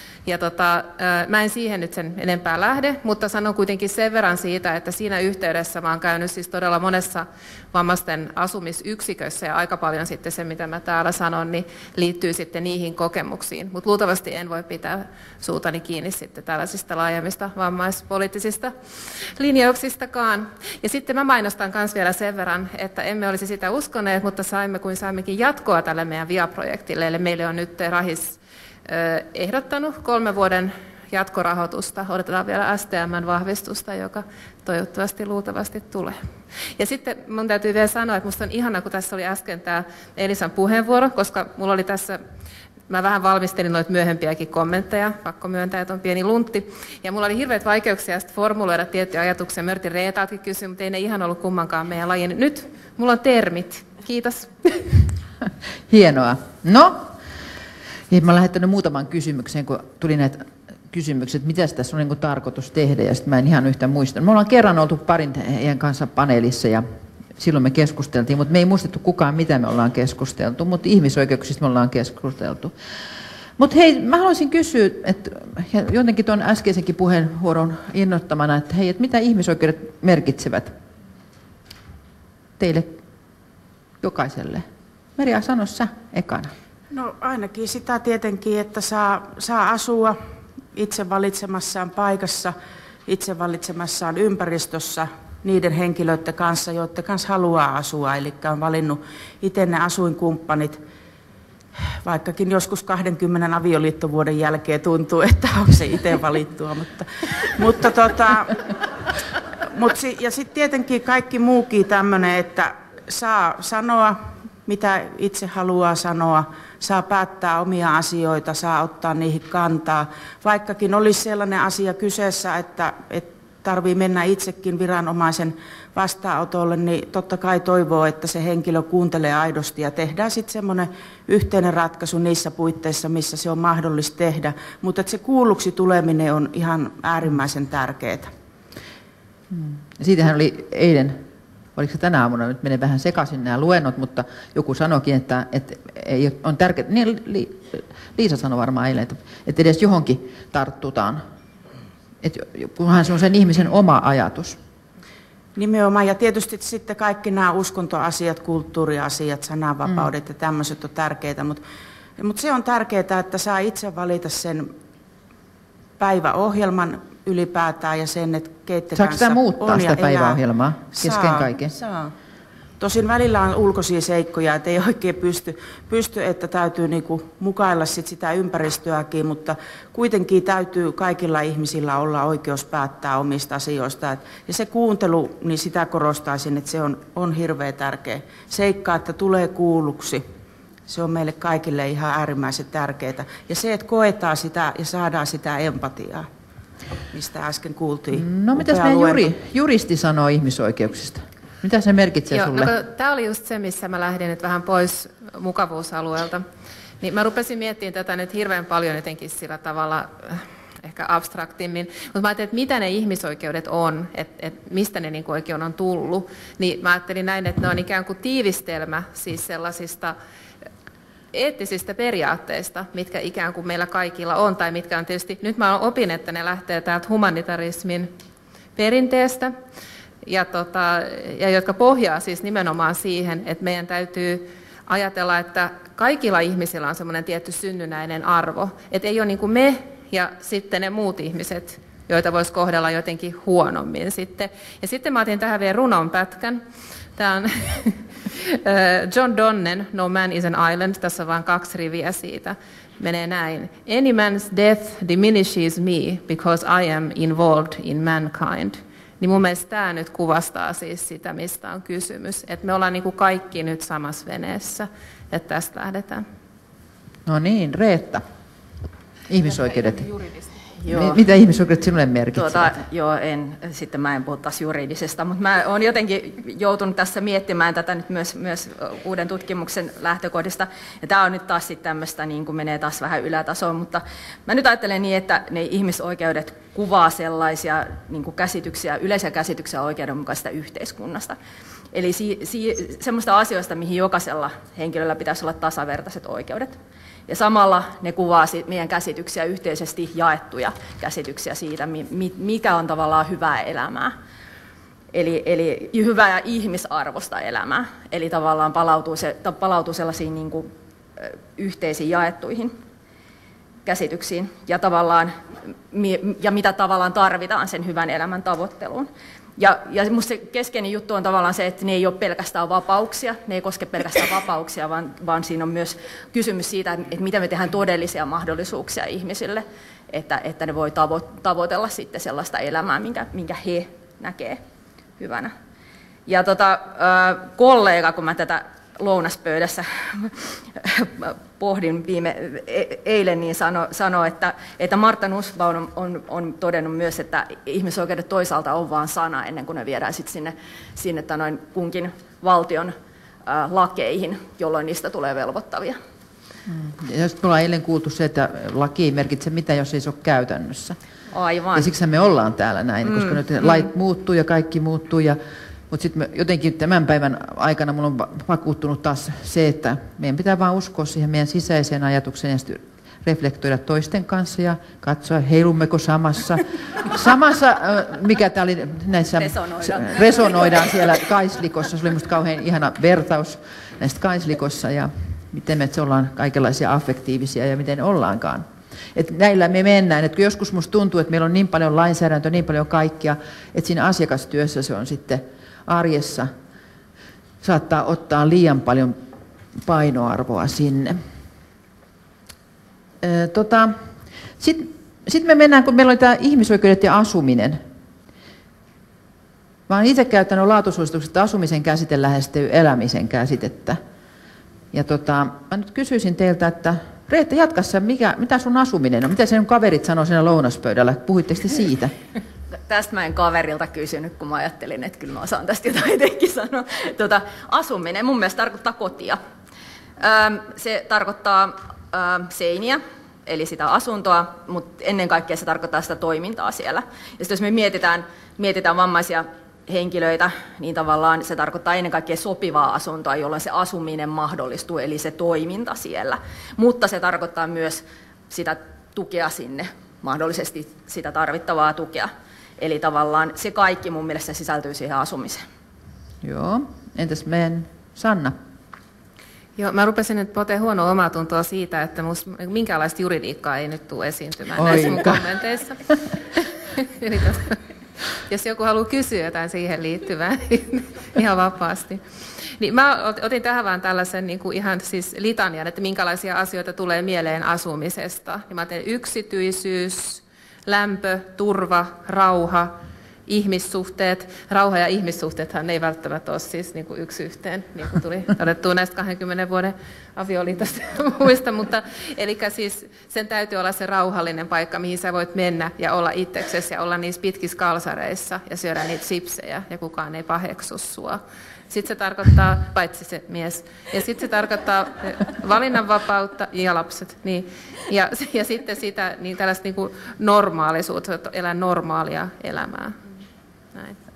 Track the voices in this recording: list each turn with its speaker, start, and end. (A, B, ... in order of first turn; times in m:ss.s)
0:00.2-0:42.2 A
0:42.9-0:54.9 A
0:55.9-0:57.1 B
0:58.1-1:06.8 B
1:07.4-1:12.7 B
1:13.6-1:20.7 B
1:22.6-1:23.0 B
1:24.0-1:24.6 B
1:25.2-1:26.5 B
1:26.9-1:30.2 C
1:30.7-1:32.5 C
1:33.1-1:40.8 C
1:42.0-1:48.6 C
1:49.6-2:18.3 C
2:19.5-2:21.2 B
2:21.8-2:31.2 B
2:32.2-2:34.6 B
2:35.6-2:41.6 C
2:42.2-2:44.7 C
2:46.0-2:50.4 C
2:49.0-2:51.7 B
2:50.9-2:52.1 C
2:52.8-3:10.2 C
3:10.9-3:16.3 C
3:17.1-3:19.3 C
3:18.1-3:22.7 B
3:22.3-3:26.4 A
3:27.0-3:40.1 A
3:41.3-3:48.1 A
3:48.8-3:49.5 A
3:50.2-4:06.6 A
4:07.2-4:26.2 A
4:27.2-4:28.2 B
4:29.3-4:30.1 B
4:30.8-4:31.2 D
4:30.9-4:32.8 B
4:32.4-4:51.4 D
4:51.9-5:04.1 D
5:05.1-5:12.8 D
5:13.8-5:15.3 D
5:15.9-5:34.6 D
5:35.2-5:35.5 D
5:36.3-5:52.9 D
5:53.4-5:56.0 D
5:56.7-6:01.0 B
6:01.3-6:01.9 D
6:01.7-6:36.5 B
6:03.0-6:03.4 D
6:19.4-6:20.8 D
6:37.6-6:39.2 B
6:39.8-6:41.2 B
6:43.2-6:44.0 B
6:44.6-6:47.8 B
6:49.9-6:54.0 B
6:54.9-7:02.1 B
7:02.9-7:09.4 D
7:10.2-7:35.6 D
7:36.4-7:38.6 B
7:39.8-7:46.0 A
7:44.8-7:45.4 B
7:46.5-7:47.8 A
7:48.5-8:02.9 A
8:03.5-8:33.2 A